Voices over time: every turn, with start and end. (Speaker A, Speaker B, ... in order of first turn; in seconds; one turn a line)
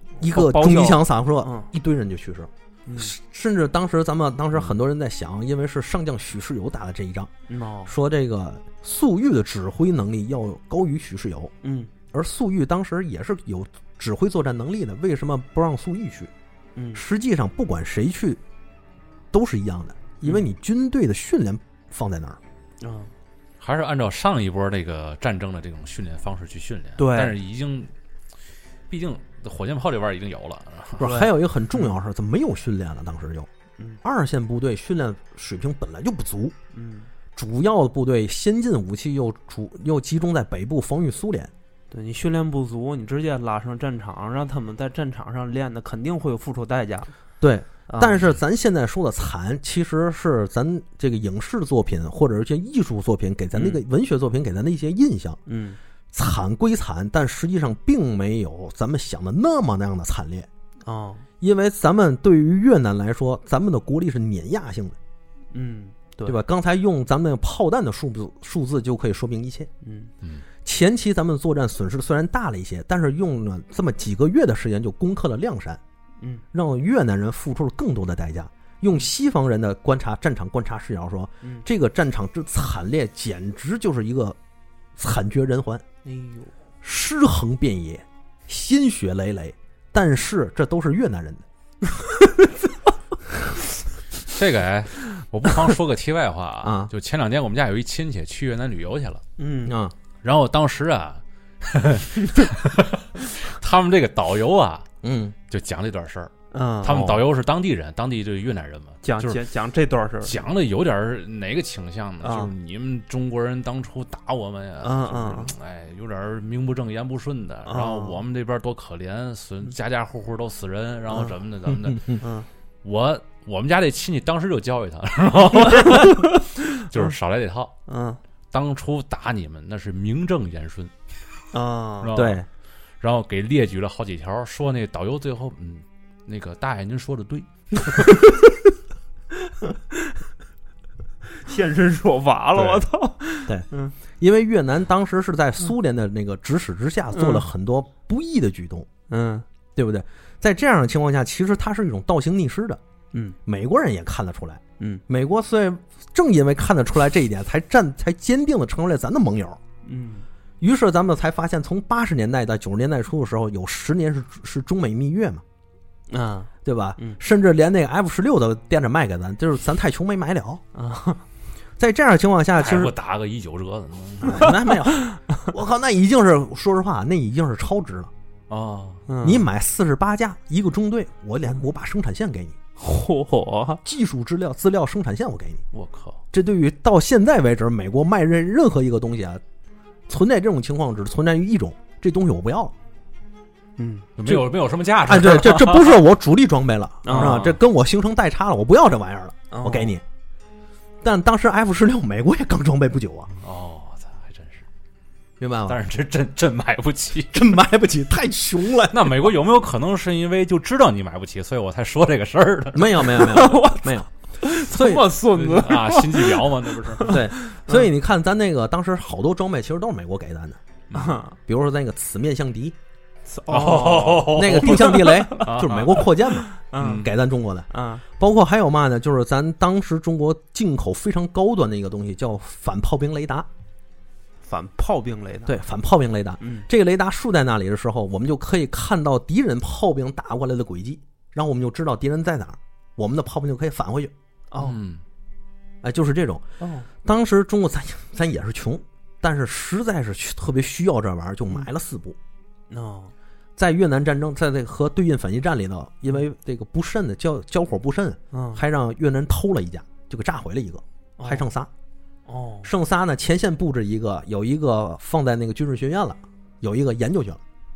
Speaker A: 0.2-7.3
Speaker B: 0.2-1.7
Speaker B: 2.9-3.1
Speaker B: 7.5-7.9
Speaker A: 7.9-11.5
Speaker B: 11.6-11.9
Speaker A: 12.1-16.3
Speaker B: 16.8-17.0
Speaker A: 16.9-18.4
Speaker A: 19.3-22.4
Speaker B: 22.8-23.1
Speaker C: 23.6-27.9
Speaker B: 27.0-27.4
Speaker C: 28.9-31.0
Speaker A: 31.0-33.5
Speaker B: 31.0-31.9
Speaker A: 34.0-36.5
Speaker B: 36.7-37.1
Speaker A: 37.4-41.5
Speaker B: 41.9-47.1
Speaker A: 47.4-55.4
Speaker B: 47.9-48.2
Speaker B: 53.5-53.8
Speaker B: 55.5-55.8
Speaker A: 56.1-60.5
Speaker B: 60.8-61.3
Speaker A: 61.4-65.0
Speaker B: 65.5-66.4
Speaker A: 66.3-69.7
Speaker B: 69.8-70.1
Speaker A: 70.6-75.8
Speaker A: 76.5-84.4
Speaker A: 85.0-85.8
Speaker B: 86.0-86.5
Speaker A: 86.8-91.4
Speaker C: 94.3-99.2
Speaker A: 96.6-96.9
Speaker B: 99.4-99.8
Speaker A: 99.7-100.0
Speaker C: 100.2-104.9
Speaker A: 105.0-105.4
Speaker C: 105.5-109.4
Speaker B: 106.5-107.2
Speaker B: 109.0-110.4
Speaker C: 110.2-122.2
Speaker B: 112.2-112.5
Speaker B: 114.8-115.5
Speaker B: 117.7-118.2
Speaker A: 121.7-122.2
Speaker B: 122.2-122.5
Speaker C: 122.8-127.7
Speaker B: 125.7-126.4
Speaker B: 127.9-128.2
Speaker C: 128.5-130.9
Speaker B: 131.5-132.1
Speaker C: 132.0-132.4
Speaker A: 132.1-132.4
Speaker C: 133.0-138.1
Speaker B: 141.3-143.9
Speaker A: 143.5-148.9
Speaker B: 147.1-147.4
Speaker B: 149.1-149.4
Speaker A: 149.8-152.8
Speaker A: 153.4-159.6
Speaker B: 159.8-160.3
Speaker A: 160.6-165.4
Speaker B: 166.1-167.2
Speaker A: 166.6-170.6
Speaker B: 170.7-171.2
Speaker A: 171.8-172.9
Speaker C: 172.6-174.6
Speaker A: 174.2-178.1
Speaker B: 174.4-175.2
Speaker C: 178.5-179.1
Speaker B: 179.1-179.5
Speaker A: 179.2-182.6
Speaker B: 182.8-183.8
Speaker A: 183.8-185.6
Speaker C: 185.7-186.2
Speaker A: 186.3-189.4
Speaker A: 190.1-192.7
Speaker B: 193.8-194.1
Speaker C: 194.2-196.0
Speaker A: 195.0-200.0
Speaker B: 197.0-197.5
Speaker C: 197.1-197.6
Speaker B: 199.5-200.0
Speaker A: 201.0-203.3
Speaker C: 203.4-204.6
Speaker A: 205.4-205.8
Speaker C: 205.7-207.5
Speaker A: 207.3-209.3
Speaker C: 208.9-213.3
Speaker A: 212.7-215.1
Speaker B: 213.1-217.9
Speaker C: 215.2-217.2
Speaker A: 217.1-220.6
Speaker C: 220.9-221.2
Speaker B: 220.9-221.4
Speaker A: 221.5-222.8
Speaker B: 223.3-225.5
Speaker C: 223.5-226.1
Speaker A: 224.2-233.5
Speaker B: 226.3-227.1
Speaker C: 226.8-227.1
Speaker B: 227.7-228.0
Speaker B: 234.4-235.6
Speaker A: 235.4-244.1
Speaker B: 236.4-236.7
Speaker B: 244.5-244.8
Speaker C: 244.6-245.0
Speaker A: 245.8-246.4
Speaker B: 246.6-246.9
Speaker A: 247.0-252.2
Speaker B: 252.7-253.1
Speaker A: 253.6-261.7
Speaker B: 258.3-258.6
Speaker B: 261.2-261.5
Speaker B: 262.3-262.7
Speaker A: 262.6-267.4